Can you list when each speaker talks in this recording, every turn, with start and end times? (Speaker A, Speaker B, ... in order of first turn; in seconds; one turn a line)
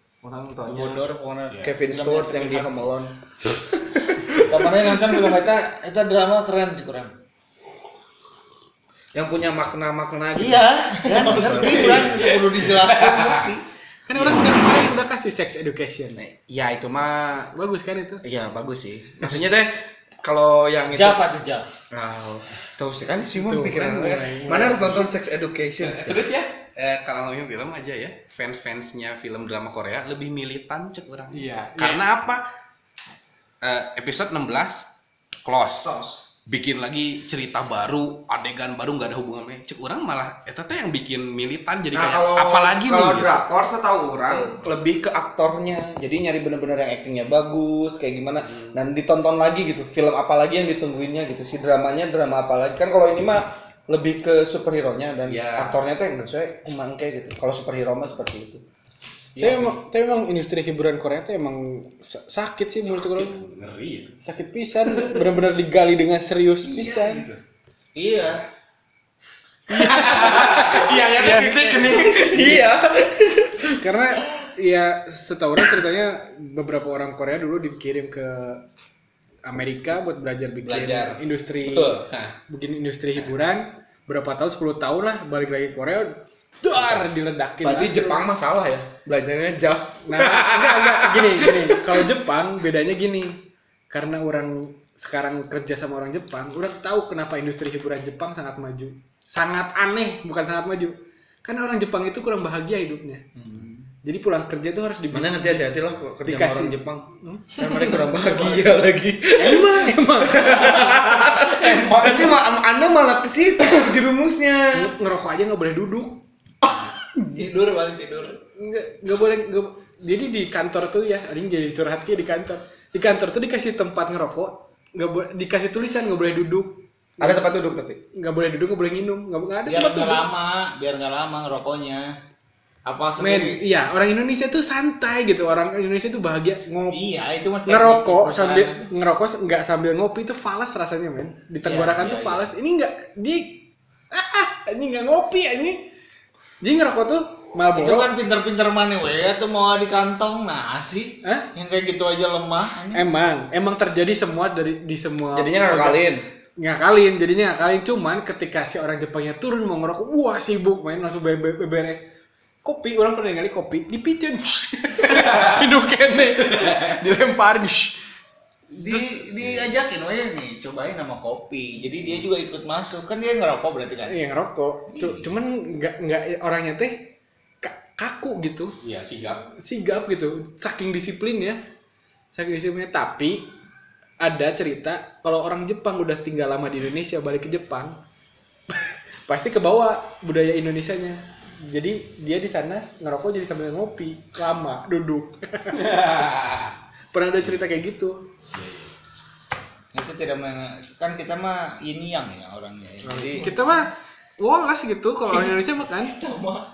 Speaker A: 0.2-1.0
Speaker B: 0.6-2.9
Speaker A: 1.6-5.2
Speaker B: 4.4-7.1
Speaker A: 9.1-12.3
Speaker B: 10.3-13.6
Speaker C: 11.3-13.5
Speaker D: 14.1-16.2
Speaker A: 16.2-17.5
Speaker D: 17.5-18.2
Speaker A: 18.2-21.2
Speaker B: 20.9-21.7
Speaker A: 21.9-26.3
Speaker D: 23.3-25.1
Speaker C: 25.8-32.4
Speaker D: 31.3-32.0
Speaker C: 33.6-34.9
Speaker C: 35.4-35.9
Speaker A: 35.8-36.2
Speaker C: 36.5-43.4
Speaker A: 41.9-58.6
Speaker B: 44.3-44.5
Speaker C: 48.4-48.8
Speaker C: 55.2-55.8
Speaker A: 59.4-59.8
Speaker D: 59.4-63.4
Speaker C: 62.9-64.2
Speaker D: 64.2-67.2
Speaker B: 67.9-68.4
Speaker D: 69.7-71.8
Speaker A: 69.7-73.8
Speaker C: 69.8-72.7
Speaker D: 73.8-78.6
Speaker D: 79.4-88.2
Speaker C: 80.6-82.3
Speaker C: 86.8-87.0
Speaker A: 87.6-92.0
Speaker D: 90.0-103.2
Speaker D: 104.0-105.7
Speaker A: 105.1-114.9
Speaker D: 106.2-108.2
Speaker D: 109.3-110.9
Speaker E: 110.6-111.0
Speaker E: 111.7-112.3
Speaker D: 114.7-116.2
Speaker A: 116.6-117.2
Speaker E: 117.3-118.4
Speaker D: 118.5-127.4
Speaker A: 127.2-128.0
Speaker D: 128.1-130.2
Speaker B: 129.7-132.1
Speaker B: 132.8-133.6
Speaker D: 133.2-137.0
Speaker B: 136.9-138.9
Speaker D: 137.7-145.9
Speaker B: 141.6-142.5
Speaker D: 146.6-148.1
Speaker B: 147.7-153.1
Speaker D: 151.2-151.5
Speaker D: 152.9-156.0
Speaker A: 155.3-156.2
Speaker D: 156.6-162.1
Speaker D: 162.6-168.0
Speaker C: 165.0-165.7
Speaker C: 166.4-166.9
Speaker B: 168.7-174.2
Speaker D: 168.7-169.2
Speaker D: 174.1-178.8
Speaker C: 178.8-179.4
Speaker D: 179.5-181.6
Speaker D: 182.3-183.5
Speaker D: 184.2-188.0
Speaker D: 188.7-195.9
Speaker C: 195.7-196.8
Speaker D: 197.1-198.2
Speaker C: 198.5-198.9
Speaker B: 199.9-203.7
Speaker D: 203.0-206.1
Speaker E: 206.0-206.6